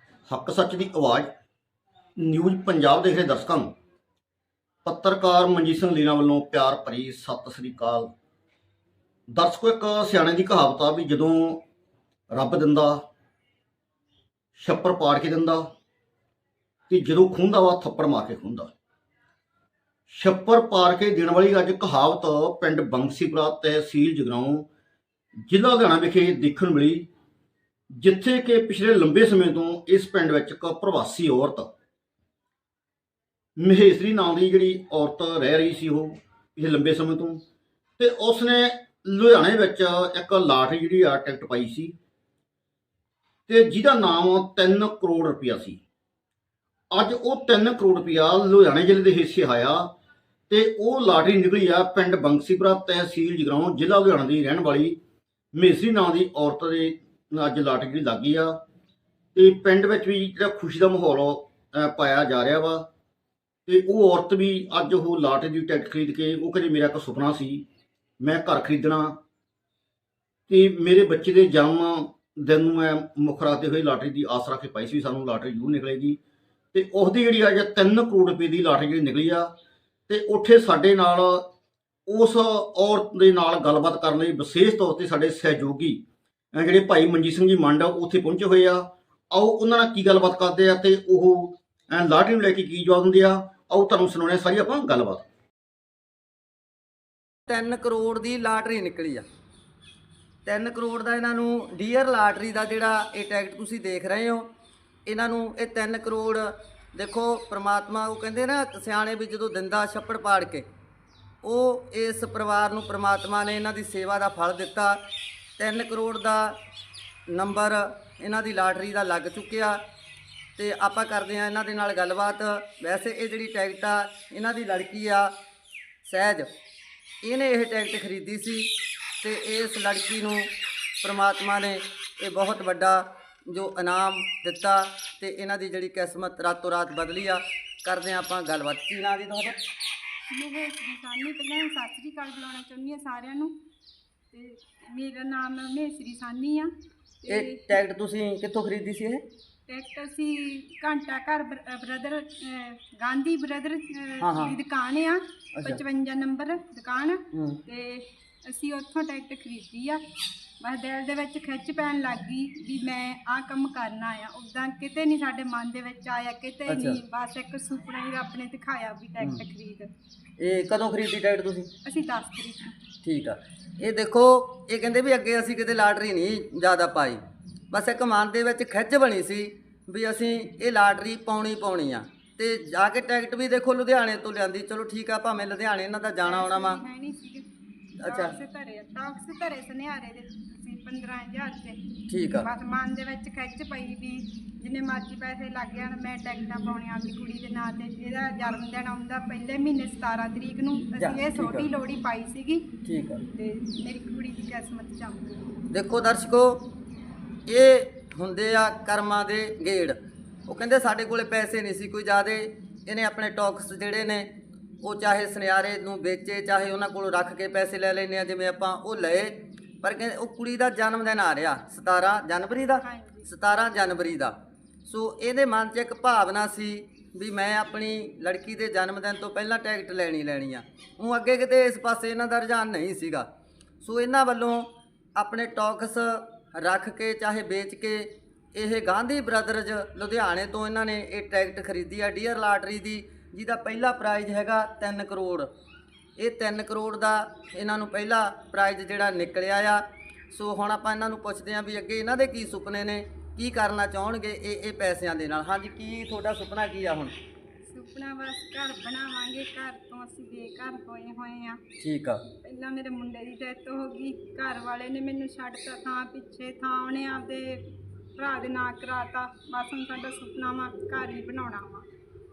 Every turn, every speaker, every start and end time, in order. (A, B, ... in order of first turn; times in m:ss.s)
0:00.3-0:01.3 A
0:02.2-0:03.7 A
0:04.8-0:08.1 A
0:09.3-0:11.6 A
0:12.3-0:13.0 A
0:14.6-0:15.7 A
0:16.9-0:18.7 A
0:20.1-0:24.7 A
0:25.5-0:27.1 A
0:27.9-0:31.7 A
0:33.6-0:37.4 A
0:38.0-0:42.0 A
0:43.5-0:45.8 A
0:46.9-0:49.9 A
0:50.5-0:55.0 A
0:55.5-0:58.6 A
0:59.4-1:02.8 A
1:03.7-1:07.6 A
1:08.2-1:09.2 A
1:10.5-1:16.2 A
1:16.7-1:19.5 A
1:20.1-1:21.5 A
1:22.1-1:26.0 A
1:26.5-1:35.2 A
1:37.5-1:39.2 B
1:40.4-1:44.5 B
1:45.0-1:50.7 B
1:51.4-1:55.0 B
1:55.6-1:56.6 B
1:57.3-1:59.8 B
2:00.6-2:05.3 B
2:06.0-2:06.5 B
2:07.2-2:08.7 B
2:09.2-2:10.5 B
2:11.0-2:19.6 B
2:20.3-2:23.5 C
2:24.3-2:26.7 C
2:27.2-2:27.8 C
2:27.3-2:29.2 B
2:29.7-2:40.0 C
2:34.2-2:34.6 B
2:35.5-2:35.8 B
2:37.3-2:37.6 B
2:40.6-2:49.9 C
2:46.7-2:47.0 B
2:50.4-2:51.7 B
2:51.8-2:52.8 C
2:53.0-3:06.8 B
3:06.2-3:07.4 C
3:08.0-3:08.4 B
3:08.0-3:11.8 C
3:12.1-3:12.5 B
3:12.3-3:22.6 C
3:21.0-3:21.7 B
3:22.8-3:23.2 B
3:23.4-3:25.4 C
3:25.7-3:26.6 B
3:27.5-3:30.0 B
3:30.5-3:34.3 B
3:34.8-3:44.3 B
3:42.8-3:43.3 C
3:44.9-3:53.3 B
3:53.8-4:05.5 B
4:06.2-4:17.1 B
4:17.7-4:21.6 C
4:21.8-4:22.2 B
4:22.4-4:31.9 C